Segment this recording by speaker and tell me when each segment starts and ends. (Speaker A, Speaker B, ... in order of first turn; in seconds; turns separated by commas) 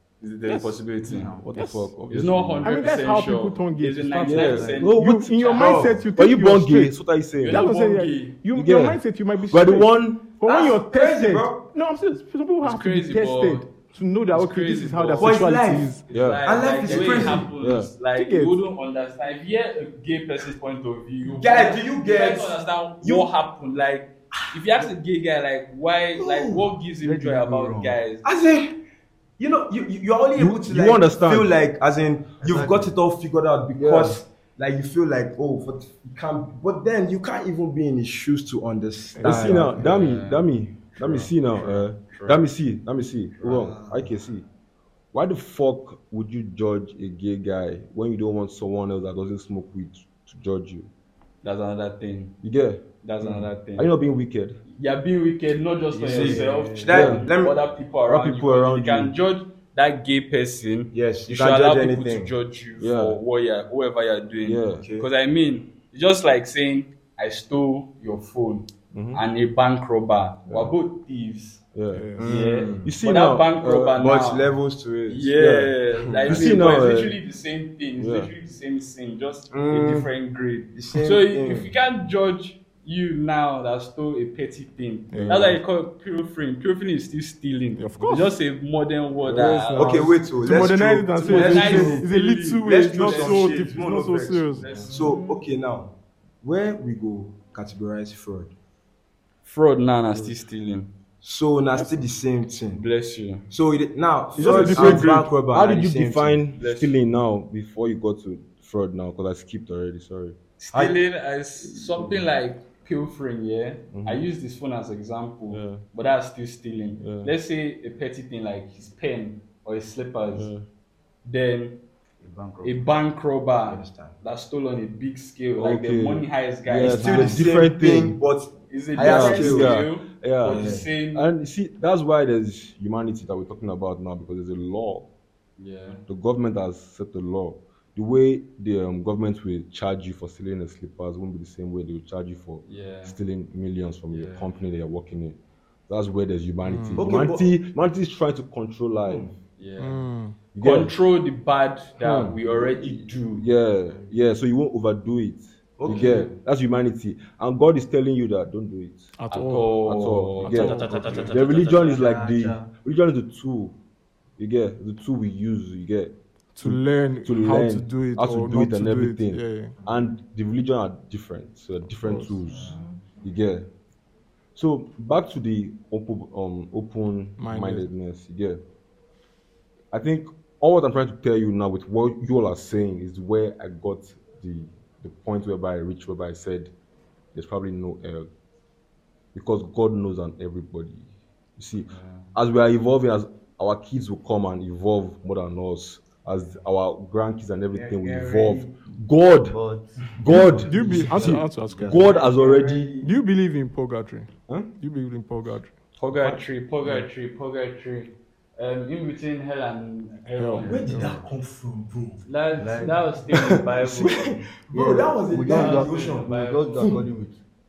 Speaker A: 0.2-1.3, Speaker B: 0.5-0.8, Speaker C: 1.1-1.6, Speaker D: 1.4-2.8, Speaker B: 1.6-1.9, Speaker A: 2.1-5.9, Speaker B: 2.6-7.0, Speaker D: 4.2-7.7, Speaker E: 5.5-6.0, Speaker A: 7.4-8.3, Speaker B: 7.5-16.0, Speaker D: 8.5-10.2, Speaker E: 10.4-11.6, Speaker A: 12.6-13.7, Speaker A: 14.3-15.5, Speaker E: 15.2-15.9, Speaker A: 16.0-28.2, Speaker D: 16.1-17.9, Speaker E: 16.4-17.5, Speaker B: 18.1-18.6, Speaker E: 21.2-23.3, Speaker E: 24.4-24.9, Speaker E: 26.2-26.7, Speaker C: 27.0-28.0, Speaker E: 28.2-28.7, Speaker E: 29.4-39.8, Speaker D: 30.4-31.5, Speaker C: 32.4-33.0, Speaker D: 33.7-34.2, Speaker B: 39.2-39.9, Speaker D: 39.2-44.5, Speaker A: 39.7-40.5, Speaker A: 41.0-42.4, Speaker E: 43.4-44.1, Speaker D: 45.1-50.9, Speaker A: 51.4-52.3, Speaker D: 52.4-54.6, Speaker A: 53.0-53.9, Speaker A: 54.7-71.6, Speaker E: 56.0-57.6, Speaker C: 56.0-56.9, Speaker D: 56.9-57.3, Speaker D: 58.1-59.1, Speaker E: 60.9-62.3, Speaker D: 62.8-63.2, Speaker D: 64.4-64.8, Speaker E: 64.8-65.1, Speaker D: 68.9-69.2, Speaker D: 70.5-70.7, Speaker D: 71.7-72.1, Speaker B: 71.9-72.5, Speaker E: 72.2-73.0, Speaker A: 72.2-74.5, Speaker D: 72.8-74.0, Speaker E: 74.0-75.3, Speaker A: 75.1-90.1, Speaker D: 75.4-75.7, Speaker E: 76.1-76.6, Speaker D: 76.2-77.2, Speaker D: 78.0-78.3, Speaker E: 79.5-80.1, Speaker E: 80.7-81.7, Speaker B: 85.1-85.6, Speaker B: 87.8-88.3, Speaker B: 89.3-94.7, Speaker E: 89.3-92.1, Speaker A: 91.2-93.8, Speaker E: 92.6-95.9, Speaker A: 94.6-95.4, Speaker E: 96.4-98.5, Speaker A: 99.4-100.9, Speaker E: 101.2-102.8, Speaker B: 101.8-102.1, Speaker A: 102.7-103.5, Speaker E: 103.5-106.4, Speaker B: 104.4-105.3, Speaker D: 104.4-110.4, Speaker A: 106.5-107.0, Speaker A: 110.6-120.5, Speaker E: 110.7-111.0, Speaker D: 111.9-112.3, Speaker D: 113.9-114.3, Speaker D: 115.5-115.8, Speaker D: 117.0-117.3, Speaker D: 120.3-120.7, Speaker A: 121.2-121.8, Speaker C: 122.2-122.9, Speaker A: 122.6-127.5, Speaker E: 123.7-124.2, Speaker D: 125.6-128.2, Speaker E: 126.8-129.8, Speaker A: 128.7-131.3, Speaker D: 129.0-135.1, Speaker E: 130.5-130.8, Speaker A: 135.6-136.0, Speaker D: 136.1-149.3, Speaker A: 142.6-143.2, Speaker A: 144.1-144.6, Speaker B: 146.6-147.1, Speaker E: 147.0-147.5, Speaker E: 149.1-149.3, Speaker A: 149.6-150.1, Speaker B: 149.8-150.4, Speaker D: 150.5-150.9, Speaker A: 150.6-153.5, Speaker D: 152.0-159.2, Speaker E: 155.8-156.3, Speaker A: 155.9-156.3, Speaker B: 159.2-161.4, Speaker A: 159.3-162.0, Speaker D: 159.8-163.8, Speaker C: 160.7-162.7, Speaker D: 164.4-173.7, Speaker B: 166.6-169.8, Speaker B: 172.0-172.4, Speaker E: 172.5-173.2, Speaker D: 174.6-178.6, Speaker B: 177.4-177.9, Speaker D: 179.9-186.7, Speaker D: 187.3-188.3, Speaker D: 189.3-199.6, Speaker A: 191.9-192.3, Speaker E: 197.7-198.7, Speaker C: 199.5-202.7, Speaker D: 200.2-202.9, Speaker B: 200.3-202.1, Speaker E: 201.9-203.1, Speaker B: 203.0-205.7, Speaker A: 206.0-210.8, Speaker B: 210.3-211.0, Speaker E: 210.6-212.2, Speaker C: 210.8-211.2, Speaker A: 212.2-214.4, Speaker C: 212.6-213.0, Speaker E: 213.3-217.0, Speaker C: 214.7-217.4, Speaker A: 215.5-217.0